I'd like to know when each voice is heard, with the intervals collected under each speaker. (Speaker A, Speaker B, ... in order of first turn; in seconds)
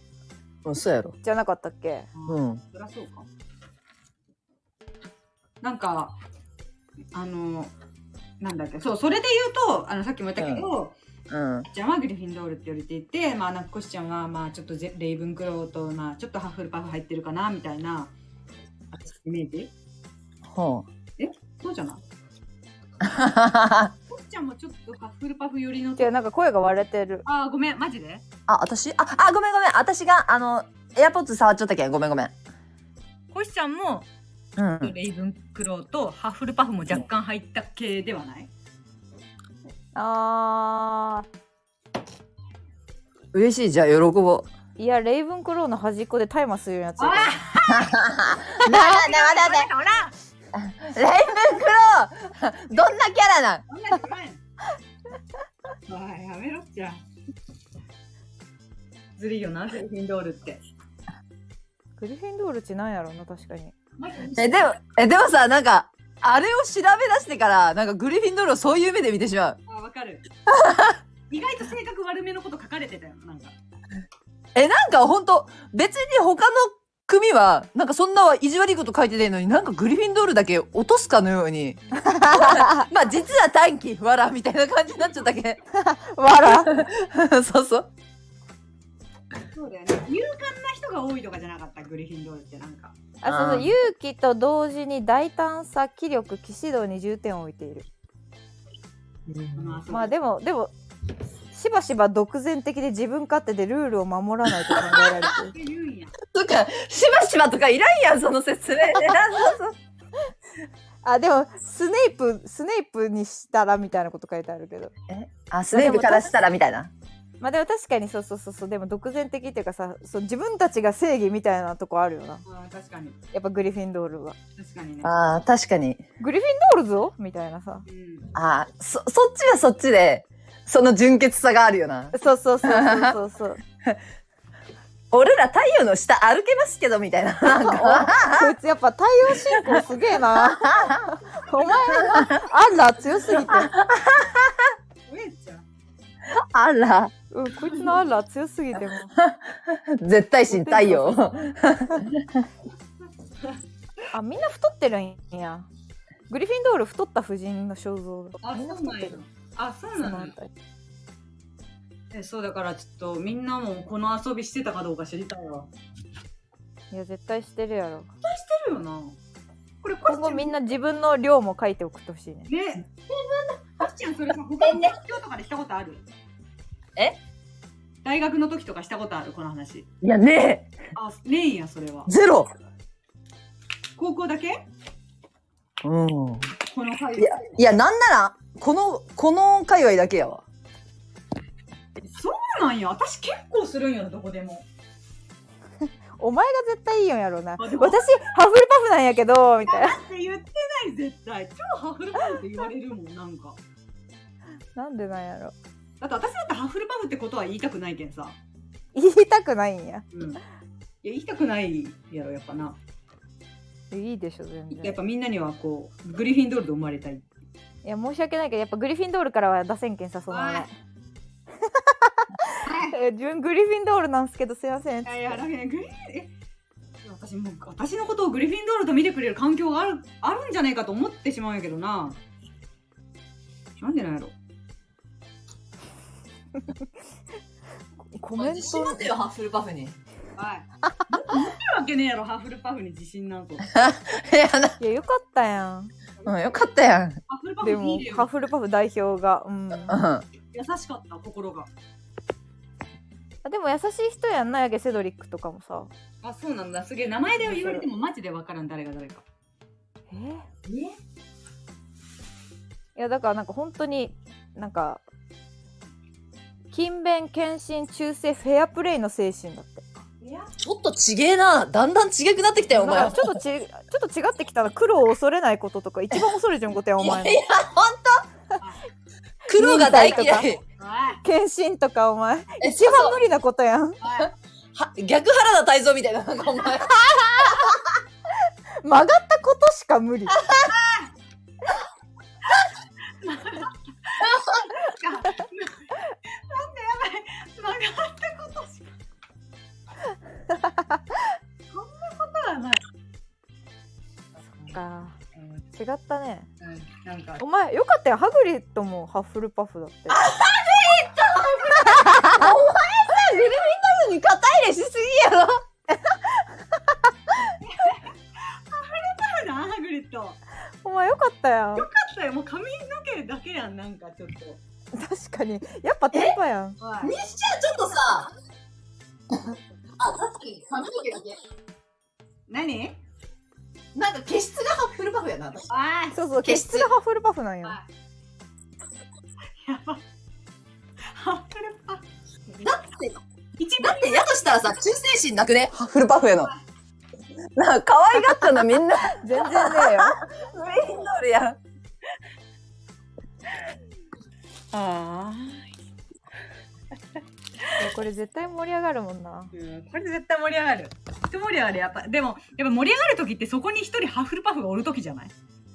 Speaker A: 0.6-1.1, 2.3-2.6, 10.4-10.7, 11.3-11.7, 20.5-20.9, 23.0-23.9, 28.5-32.3, 34.6-34.9, 43.3-44.5, 47.7-49.7, 50.5-53.6, 64.3-69.6, 70.5-71.0, 74.5-85.6, 86.4-87.9, 93.2-93.7, 99.3-99.8, 106.2-109.8, 115.1-116.9, 125.0-126.0, 128.3-133.2, 135.1-138.5, 139.4-141.1, 141.9-142.4, 143.3-144.7, 146.2-147.1, 149.2-152.5, 174.6-175.0, 180.0-180.7, 182.1-182.5, 185.8-186.5, 187.2-190.4, 238.4-240.0, 243.7-244.8, 246.2-247.2, 249.9-250.2, 270.6-273.3, 277.0-278.2, 279.5-280.6, 282.6-283.2, 284.7-287.8, 290.4-290.7, 294.2-294.7, 310.1-315.6, 326.1-326.4, 327.0-328.3, 330.0-331.4, 333.9-335.7, 336.4-336.9, 342.6-343.2, 343.8-346.5, 347.5-351.6
Speaker B: 1.2-2.1, 26.0-27.2, 39.9-41.2, 44.8-47.4, 62.0-63.7, 81.9-82.9, 85.7-86.8, 93.2-97.9, 99.9-100.7, 101.5-105.5, 111.0-114.9, 115.7-116.3, 117.4-122.4, 123.3-124.4, 126.2-127.8, 132.1-133.6, 137.4-143.8, 147.3-149.1, 150.5-151.4, 154.1-155.7, 156.3-159.2, 160.0-160.5, 166.9-168.1, 170.1-172.5, 196.2-200.0, 204.8-205.5, 208.9-210.1, 213.9-215.0, 217.8-220.7, 221.6-225.4, 238.1-239.2, 244.8-245.9, 247.6-250.0, 253.4-255.9, 257.4-257.9, 260.1-260.5, 262.9-265.0, 266.7-269.9, 272.7-277.4, 279.5-280.6, 281.2-284.0, 287.1-287.7, 288.8-290.4, 300.5-301.2, 304.6-305.2, 305.7-306.5, 307.4-310.3, 311.8-312.5, 315.9-316.9, 320.8-321.9, 324.9-326.8, 336.1-337.8, 349.0-350.1, 357.7-359.5
Speaker C: 2.1-3.2, 5.6-6.2, 7.1-7.7, 8.4-10.9, 11.7-18.1, 18.9-19.7, 21.2-22.0, 24.1-26.1, 27.2-28.2, 33.3-34.1, 34.8-38.5, 47.0-48.0, 48.6-50.1, 53.7-54.4, 55.9-57.0, 59.2-60.6, 64.0-64.8, 69.7-70.2, 71.3-73.5, 89.5-93.0, 99.5-100.1, 105.2-106.1, 122.5-123.2, 124.5-125.1, 127.8-128.3, 141.5-141.9, 145.1-145.6, 158.4-160.3, 162.1-165.7, 168.2-169.2, 169.8-170.5, 172.5-176.0, 178.0-179.9, 180.9-182.1, 184.0-184.7, 186.7-187.5, 192.0-194.6, 197.6-198.0, 199.6-203.6, 206.0-208.4, 210.1-210.4, 211.0-212.8, 214.7-217.2, 220.3-220.7, 222.6-222.9, 225.0-226.3, 227.0-232.2, 233.8-234.3, 240.3-243.7, 247.3-248.3, 250.5-251.7, 256.2-259.2, 260.6-260.9, 270.2-270.5, 280.8-281.2, 284.0-284.3, 290.7-291.1, 293.2-298.9, 301.7-302.8, 306.6-307.4, 311.6-312.0, 317.6-320.4, 321.7-324.6, 326.8-327.1, 332.5-333.0, 335.7-336.2, 339.6-340.0, 341.1-342.0, 343.6-344.4, 354.7-355.7, 359.5-365.3